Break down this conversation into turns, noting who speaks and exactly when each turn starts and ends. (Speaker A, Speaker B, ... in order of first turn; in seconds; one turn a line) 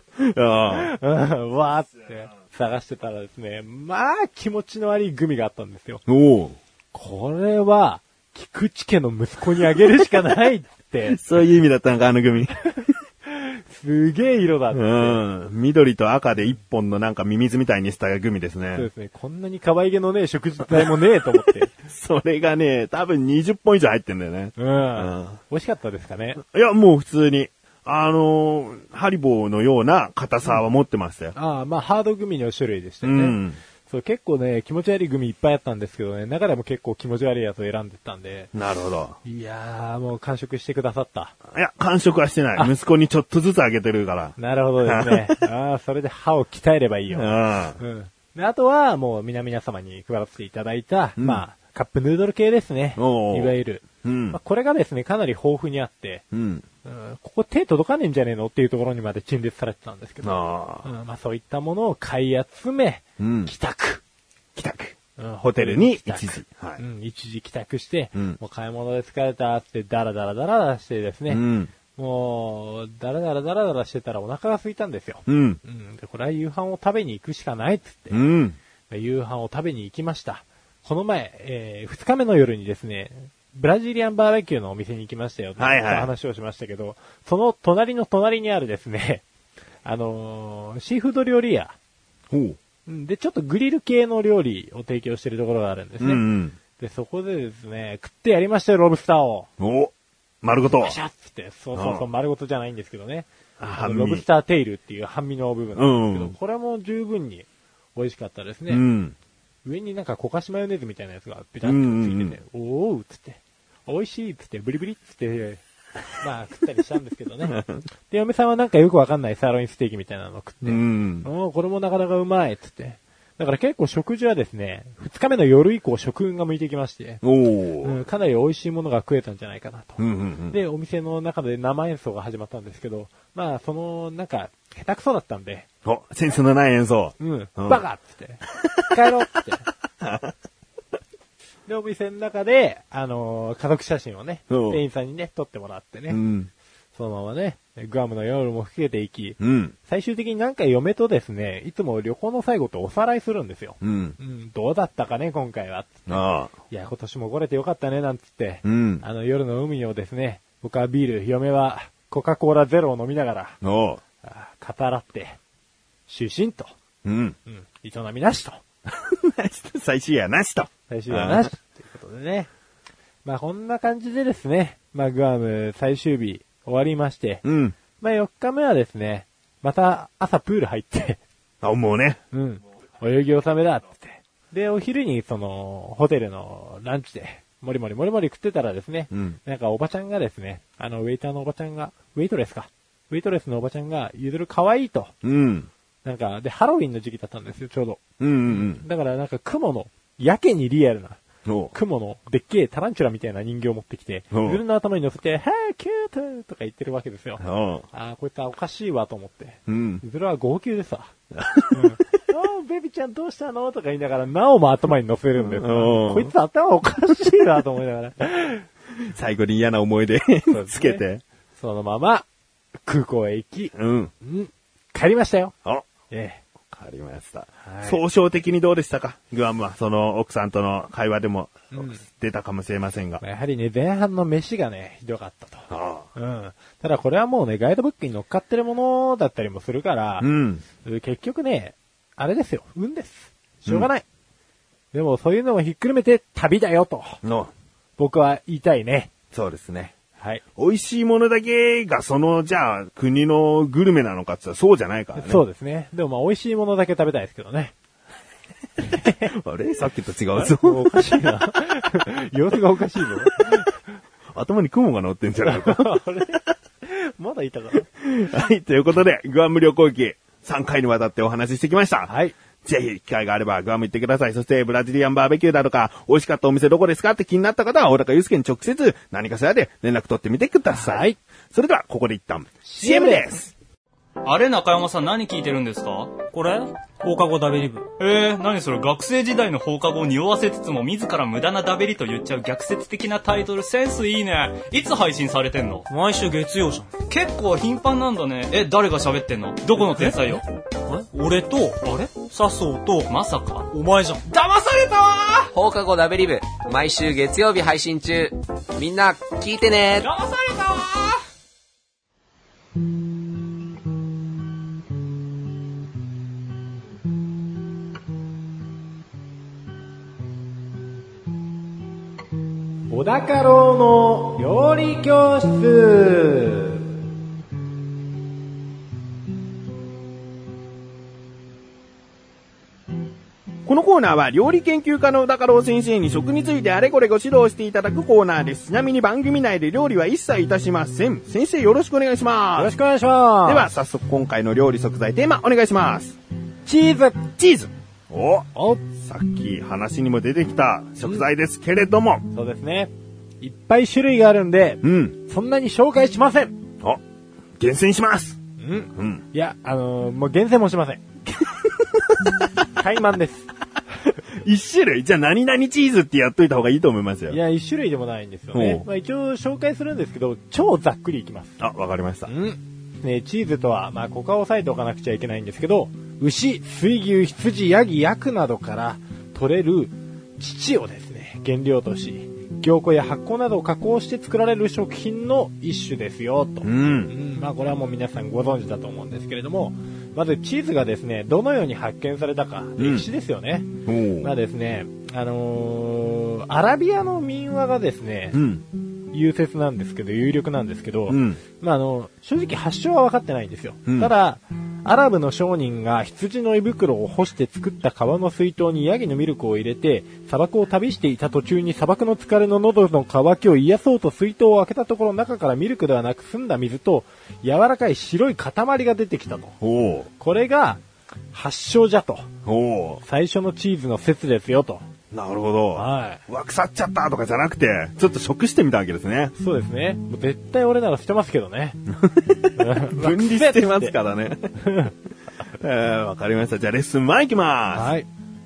Speaker A: 0.2-0.9
Speaker B: 0.8-6.0
Speaker A: 6.1-6.6
Speaker B: 6.9-11.2
Speaker A: 11.1-12.6
Speaker B: 13.3-15.2
Speaker A: 14.7-18.9
Speaker B: 18.7-21.7
Speaker A: 21.9-25.4
Speaker B: 24.6-26.4
Speaker A: 26.4-31.3
Speaker B: 31.3-38.5
Speaker A: 33.0-33.6
Speaker A: 38.5-39.2
Speaker B: 39.2-41.3
Speaker A: 41.5-45.4
Speaker B: 44.4-56.2
Speaker A: 47.1-47.8
Speaker A: 53.0-54.4
Speaker A: 56.3-56.6
Speaker B: 56.8-64.0
Speaker A: 60.2-60.9
Speaker A: 63.2-63.5
Speaker A: 64.5-66.8
Speaker B: 65.2-71.4
Speaker A: 71.3-71.7
Speaker B: 72.0-78.2
Speaker A: 75.3-75.6
Speaker A: 78.1-78.6
Speaker B: 78.9-89.2
Speaker A: 85.6-86.1
Speaker B: 89.8-91.7
Speaker A: 92.3-92.6
Speaker B: 92.8-96.2
Speaker A: 96.0-96.6
Speaker B: 96.8-99.5
Speaker A: 99.6-101.0
Speaker B: 100.6-108.8
Speaker A: 101.7-102.0
Speaker A: 103.6-104.2
Speaker A: 105.8-106.3
Speaker A: 108.7-109.2
Speaker B: 109.6-115.6
Speaker A: 111.6-112.4
Speaker B: 116.2-117.6
Speaker A: 117.5-117.8
Speaker B: 118.1-127.2
Speaker A: 120.6-121.3
Speaker A: 127.2-128.0
Speaker B: 127.8-135.7
Speaker A: 130.0-130.6
Speaker A: 135.8-137.8
Speaker B: 137.2-139.7
Speaker A: 140.0-140.3
Speaker B: 141.7-146.2
Speaker A: 144.5-144.8
Speaker A: 146.1-146.5
Speaker B: 146.9-163.6
Speaker A: 149.4-149.7
Speaker A: 153.8-154.2
Speaker A: 156.1-156.5
Speaker A: 158.6-159.0
Speaker A: 163.6-164.0
Speaker B: 164.2-165.4
Speaker B: 166.1-166.7
Speaker A: 167.0-167.4
Speaker B: 167.4-168.6
Speaker A: 168.9-171.5
Speaker B: 170.9-172.5
Speaker B: 173.2-177.4
Speaker A: 177.4-177.8
Speaker B: 178.0-181.2
Speaker A: 181.6-182.2
Speaker B: 182.3-195.1
Speaker A: 189.1-189.4
Speaker A: 195.2-195.7
Speaker B: 196.0-201.2
Speaker A: 198.2-198.8
Speaker A: 201.4-201.7
Speaker B: 201.7-211.1
Speaker A: 204.3-204.6
Speaker A: 207.4-207.8
Speaker A: 209.7-210.0
Speaker A: 211.3-212.0
Speaker B: 211.7-218.6
Speaker A: 215.4-216.3
Speaker A: 219.0-221.2
Speaker B: 220.5-221.0
Speaker B: 221.6-222.3
Speaker B: 222.8-225.5
Speaker A: 223.7-224.1
Speaker B: 226.1-226.4
Speaker A: 226.7-233.2
Speaker B: 227.6-228.0
Speaker B: 231.7-232.0
Speaker B: 233.2-244.0
Speaker A: 235.7-236.1
Speaker A: 240.2-240.6
Speaker B: 244.9-247.2
Speaker A: 247.2-247.5
Speaker B: 248.0-249.1
Speaker A: 249.3-249.9
Speaker A: 250.6-255.4
Speaker B: 255.2-257.7
Speaker B: 258.9-259.3
Speaker A: 259.3-261.3
Speaker B: 260.4-263.8
Speaker A: 264.3-266.0
Speaker B: 265.4-267.9
Speaker A: 268.0-272.1
Speaker B: 272.1-272.4
Speaker A: 272.6-283.5
Speaker B: 280.7-281.2
Speaker B: 282.6-283.2
Speaker C: 284.2-286.6
Speaker D: 286.3-287.9
Speaker C: 288.0-295.9
Speaker D: 295.9-296.9
Speaker C: 296.6-305.5
Speaker E: 305.5-310.1
Speaker C: 310.0-311.1
Speaker B: 322.9-326.8
Speaker A: 333.6-342.7
Speaker B: 342.6-343.7
Speaker A: 343.4-346.2
Speaker B: 346.6-347.3
Speaker A: 347.4-352.3
Speaker B: 348.5-348.8
Speaker B: 352.3-356.6
Speaker A: 354.8-355.1
Speaker A: 357.6-358.4
Speaker B: 358.6-361.0
Speaker A: 358.9-359.2
Speaker B: 362.8-363.5
Speaker A: 364.4-367.4
Speaker B: 367.3-371.6
Speaker A: 368.5-368.8
Speaker A: 371.6-372.3
Speaker B: 372.3-398.4
Speaker A: 386.6-387.1
Speaker A: 392.8-393.1
Speaker A: 393.9-394.3
Speaker A: 398.3-398.6
Speaker B: 399.1-419.6
Speaker A: 401.1-401.4
Speaker A: 403.9-404.1
Speaker A: 419.6-420.1
Speaker B: 420.2-420.8
Speaker B: 421.3-422.3
Speaker A: 422.4-423.0
Speaker B: 423.0-424.8
Speaker A: 425.1-429.3
Speaker B: 425.7-426.2
Speaker B: 429.4-431.8
Speaker A: 432.0-434.5
Speaker B: 432.6-433.9
Speaker B: 434.6-434.9
Speaker A: 435.6-437.9
Speaker B: 437.7-438.1